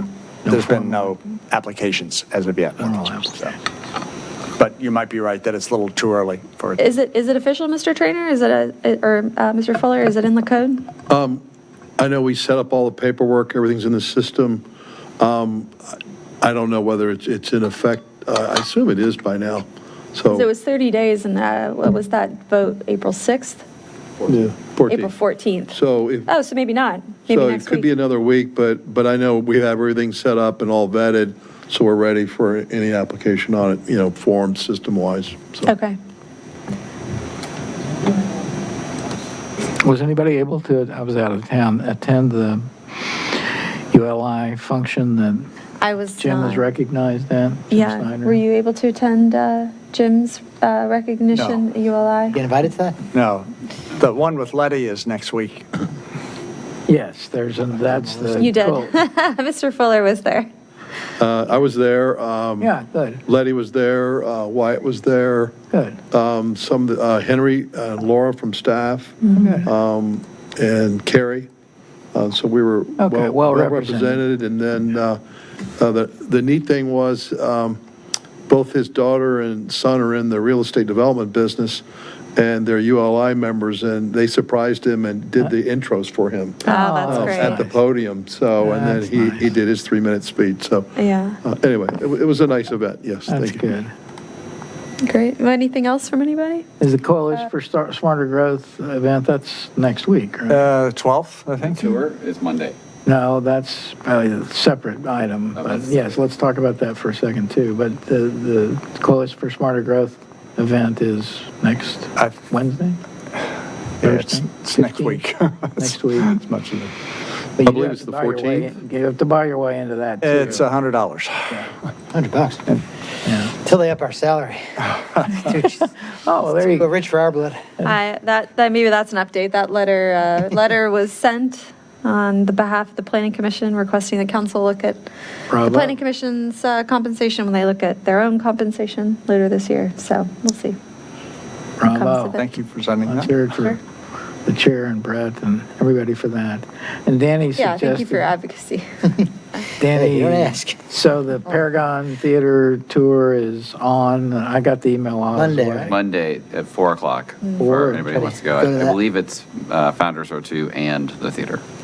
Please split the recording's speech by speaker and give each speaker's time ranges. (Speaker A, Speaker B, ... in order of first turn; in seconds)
Speaker A: 0.4-1.1, 2.8-3.5, 39.8-45.5, 46.2-48.4, 56.9-58.9, 62.6-63.2, 65.7-66.0, 69.4-69.7, 73.0-74.2, 86.7-87.7, 88.6-89.5, 93.3-93.9, 96.8-100.6, 103.0-113.0, 114.0-115.2, 115.8-116.4, 117.5-120.6, 123.2-123.5, 125.6-126.9, 135.5-135.9, 141.8-142.3, 143.0-143.8, 144.4-148.3, 149.8-155.9, 157.6-158.3
Speaker B: 0.5-3.5, 4.5-6.8, 51.3-51.6, 53.1-55.7, 100.5-101.9, 114.0-116.9, 120.2-121.6, 142.4-143.3
Speaker C: 6.8-10.8, 20.3-23.6, 24.9-27.9, 35.6-36.0, 45.8-46.6, 47.7-52.4, 58.4-60.5, 86.6-87.6, 91.0-91.4, 95.0-96.6, 127.8-135.0, 135.6-140.8, 141.8-142.5, 143.5-143.8, 147.6-148.8, 157.4-157.7
Speaker D: 11.1-11.4, 12.0-14.7, 15.2-20.5, 24.3-25.1, 25.7-26.3, 27.3-35.7, 61.2-62.7, 63.2-65.5, 66.1-71.5, 72.1-75.2, 75.8-77.8, 78.5-81.8, 82.3-93.7, 117.6-118.7
Speaker E: 52.3-53.0, 57.7-58.6, 122.1-122.7, 123.6-127.6, 149.9-150.9, 155.3-155.9, 158.5-159.0
Speaker F: 101.6-102.7, 105.6-105.9, 155.9-161.6